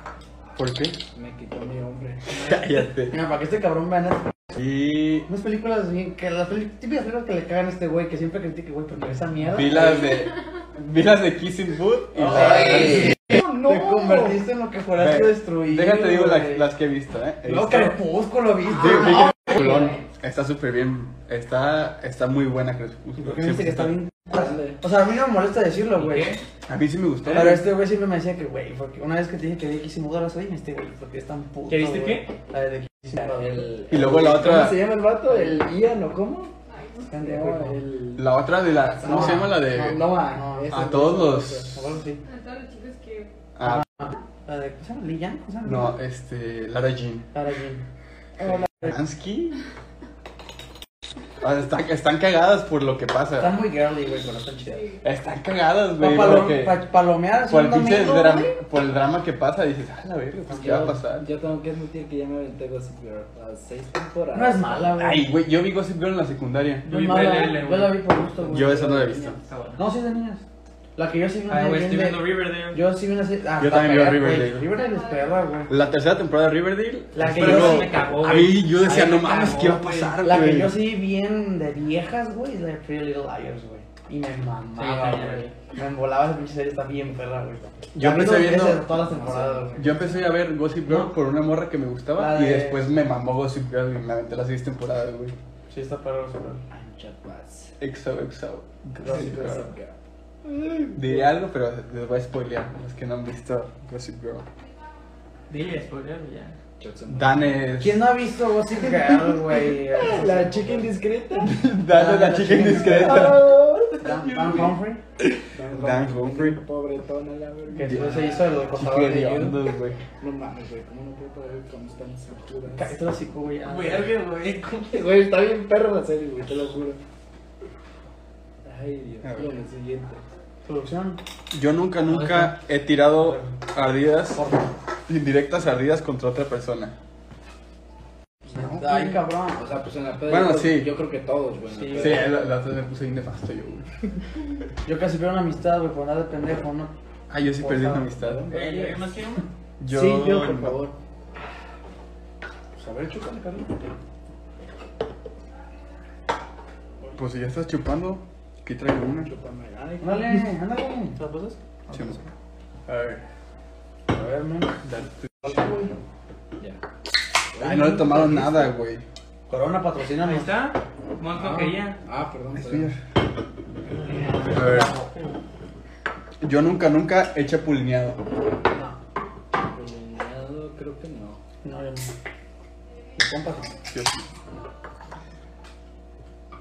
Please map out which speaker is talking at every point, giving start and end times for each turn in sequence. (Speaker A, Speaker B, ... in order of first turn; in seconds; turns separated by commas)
Speaker A: 0.6-1.0, Speaker B: 1.1-2.2, Speaker C: 2.3-2.6, Speaker A: 2.3-3.2, Speaker D: 3.1-4.3, Speaker A: 4.5-5.3, Speaker D: 5.3-10.2, Speaker A: 9.5-13.2, Speaker D: 12.2-16.7, Speaker B: 12.7-14.4, Speaker A: 15.0-18.0, Speaker D: 17.4-20.0, Speaker A: 18.7-24.0, Speaker D: 23.2-26.4, Speaker B: 24.3-24.8, Speaker C: 25.9-26.4, Speaker A: 26.7-27.6, Speaker C: 27.2-27.6, Speaker D: 27.3-33.7, Speaker C: 31.7-32.3, Speaker B: 33.2-36.5, Speaker A: 33.9-34.9, Speaker D: 35.3-35.6, Speaker E: 36.7-37.1, Speaker D: 37.0-37.8, Speaker B: 37.2-38.3, Speaker A: 38.1-40.1, Speaker B: 38.9-41.7, Speaker D: 39.0-40.8, Speaker A: 40.7-41.9, Speaker D: 41.7-42.2, Speaker E: 42.2-43.3, Speaker A: 43.6-43.9, Speaker D: 43.6-45.9, Speaker A: 45.6-47.3, Speaker D: 47.3-47.8, Speaker A: 48.4-49.6, Speaker A: 51.4-53.5, Speaker D: 53.4-55.0, Speaker A: 55.0-56.8, Speaker D: 56.0-58.5, Speaker A: 57.5-61.3, Speaker D: 60.5-61.0, Speaker B: 60.6-65.0, Speaker D: 64.3-65.3, Speaker A: 65.0-66.9, Speaker C: 66.8-68.1, Speaker D: 66.8-70.4, Speaker A: 68.5-69.4, Speaker B: 68.6-69.2, Speaker C: 69.4-69.8, Speaker D: 71.0-75.7, Speaker C: 71.5-72.8, Speaker A: 73.6-74.7, Speaker E: 74.7-75.6, Speaker A: 75.7-80.8, Speaker D: 77.1-78.0, Speaker C: 77.2-80.2, Speaker D: 80.2-90.1, Speaker C: 84.8-85.5, Speaker A: 87.9-88.8, Speaker B: 88.9-89.9, Speaker A: 89.8-95.3, Speaker D: 92.2-92.9, Speaker D: 95.7-96.6, Speaker B: 96.7-97.7, Speaker A: 97.8-99.7, Speaker D: 99.0-99.6, Speaker B: 99.0-101.3, Speaker A: 100.9-104.5, Speaker C: 105.5-106.5, Speaker B: 106.8-107.6, Speaker A: 107.1-108.1, Speaker D: 107.8-110.9, Speaker B: 109.9-111.6, Speaker A: 111.4-113.5, Speaker D: 111.9-113.5, Speaker B: 112.7-114.0, Speaker C: 113.9-114.7, Speaker D: 114.0-115.0, Speaker A: 115.2-116.6, Speaker B: 115.5-118.5, Speaker D: 117.7-119.6, Speaker A: 117.8-120.0, Speaker B: 120.2-122.9, Speaker D: 122.7-124.1, Speaker C: 123.6-125.1, Speaker B: 124.9-127.0, Speaker B: 128.6-130.2, Speaker A: 129.2-129.5, Speaker D: 130.6-131.2, Speaker A: 131.5-134.4, Speaker C: 132.1-132.5, Speaker D: 133.2-133.5, Speaker D: 134.3-134.7, Speaker A: 135.1-136.9, Speaker D: 138.5-139.6, Speaker A: 138.5-139.2, Speaker B: 139.5-142.3, Speaker A: 140.3-140.9, Speaker D: 141.7-142.3, Speaker A: 141.9-143.9, Speaker D: 144.8-146.9, Speaker A: 147.3-148.4, Speaker D: 147.5-148.1, Speaker B: 148.1-149.0, Speaker C: 148.5-149.4, Speaker A: 149.8-150.8, Speaker B: 149.9-150.9, Speaker D: 152.8-153.8, Speaker A: 157.1-159.3, Speaker B: 159.2-160.5, Speaker D: 160.0-162.3, Speaker A: 161.9-162.2, Speaker A: 162.9-163.2, Speaker D: 164.1-164.8, Speaker A: 164.8-165.7, Speaker D: 165.4-165.9, Speaker B: 167.5-168.6, Speaker A: 167.6-169.0, Speaker D: 169.5-170.5, Speaker C: 170.2-172.0, Speaker B: 171.4-172.9, Speaker A: 172.6-173.0, Speaker D: 173.9-175.4, Speaker A: 174.5-174.9, Speaker A: 176.4-178.2, Speaker D: 178.7-179.0, Speaker B: 179.6-181.4, Speaker D: 181.6-182.1, Speaker D: 183.2-183.7, Speaker A: 183.9-184.2